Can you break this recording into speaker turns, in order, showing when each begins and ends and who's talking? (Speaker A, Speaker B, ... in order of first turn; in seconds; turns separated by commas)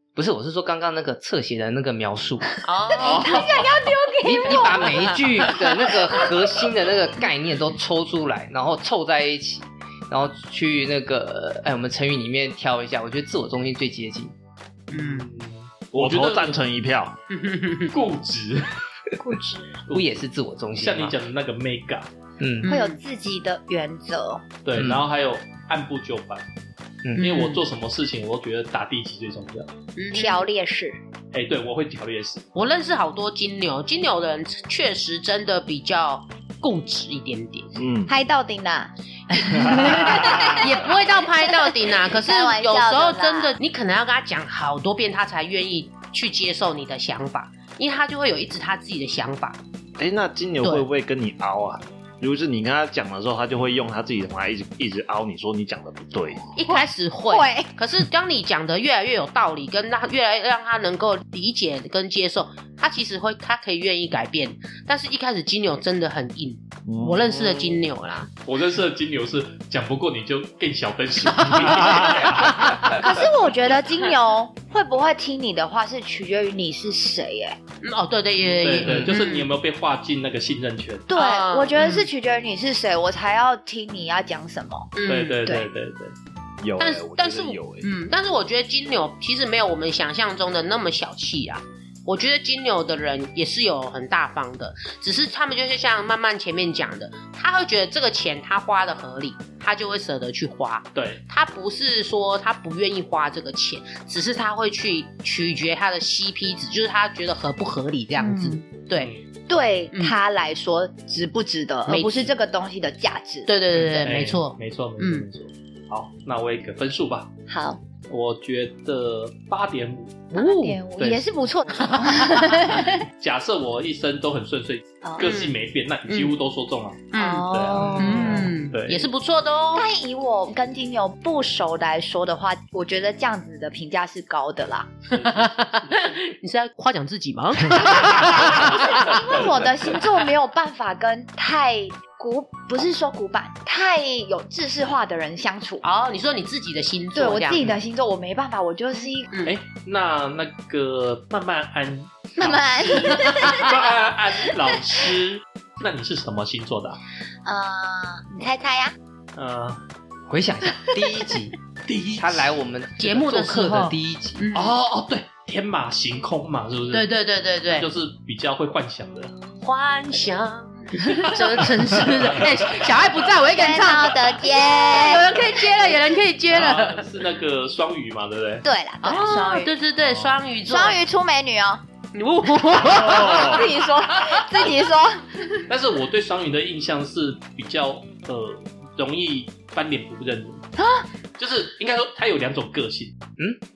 Speaker A: 0.1-2.6, Speaker B: 2.6-3.5, Speaker C: 2.9-6.3, Speaker A: 4.2-14.3, Speaker B: 14.9-15.3, Speaker D: 14.9-16.6, Speaker E: 15.9-17.2, Speaker B: 17.3-17.9, Speaker D: 17.9-18.7, Speaker C: 19.2-19.8, Speaker D: 19.9-20.2, Speaker A: 19.9-21.1, Speaker D: 20.8-22.1, Speaker A: 22.4-22.7, Speaker B: 22.6-23.0, Speaker C: 22.7-24.4, Speaker D: 24.6-26.4, Speaker A: 24.7-25.0, Speaker B: 27.1-27.6, Speaker D: 27.2-29.7, Speaker B: 29.9-30.4, Speaker C: 30.1-31.0, Speaker D: 31.3-32.5, Speaker B: 32.5-37.8, Speaker E: 37.7-38.1, Speaker C: 38.1-40.9, Speaker B: 39.5-49.6, Speaker E: 39.7-40.6, Speaker C: 41.6-43.6, Speaker E: 50.0-56.5, Speaker B: 50.6-50.9, Speaker B: 56.5-68.3, Speaker C: 56.7-57.7, Speaker E: 66.9-67.8, Speaker D: 68.4-72.9, Speaker B: 71.3-72.8, Speaker C: 72.9-77.6, Speaker B: 77.8-79.5, Speaker D: 78.5-81.1, Speaker C: 81.1-84.9, Speaker B: 81.1-82.1, Speaker B: 84.9-85.4, Speaker D: 85.0-86.1, Speaker E: 86.6-87.9, Speaker B: 86.8-109.1, Speaker D: 100.9-101.2, Speaker C: 108.2-108.6, Speaker D: 109.0-109.2, Speaker C: 109.5-113.5, Speaker B: 111.9-112.3, Speaker B: 113.5-115.3, Speaker D: 113.8-117.3, Speaker C: 117.5-117.8, Speaker D: 118.1-120.3, Speaker B: 120.3-120.8, Speaker C: 120.3-123.0, Speaker D: 121.0-121.2, Speaker B: 121.7-122.8, Speaker D: 122.8-129.1, Speaker C: 125.0-125.3, Speaker B: 125.2-125.5, Speaker B: 126.1-126.3, Speaker B: 127.1-129.8, Speaker C: 127.2-128.5, Speaker C: 129.7-134.9, Speaker D: 135.1-136.2, Speaker B: 135.2-139.2, Speaker C: 137.9-145.8, Speaker B: 145.8-147.7, Speaker C: 147.1-149.3, Speaker D: 149.4-157.0, Speaker C: 152.4-153.9, Speaker B: 153.4-153.7, Speaker C: 157.4-158.9, Speaker D: 159.3-159.8, Speaker A: 160.3-161.6, Speaker D: 161.8-162.5, Speaker A: 162.2-164.4, Speaker B: 163.0-164.7, Speaker D: 164.5-167.1, Speaker B: 166.9-167.9, Speaker D: 167.7-169.3, Speaker B: 169.6-177.0, Speaker D: 171.1-172.2, Speaker C: 173.5-175.4, Speaker D: 176.5-178.7, Speaker C: 178.6-179.7, Speaker B: 179.0-181.0, Speaker C: 180.7-181.8, Speaker B: 182.1-183.6, Speaker E: 182.8-183.7, Speaker C: 183.0-185.6, Speaker D: 185.7-190.7, Speaker C: 190.8-191.0, Speaker D: 191.4-193.2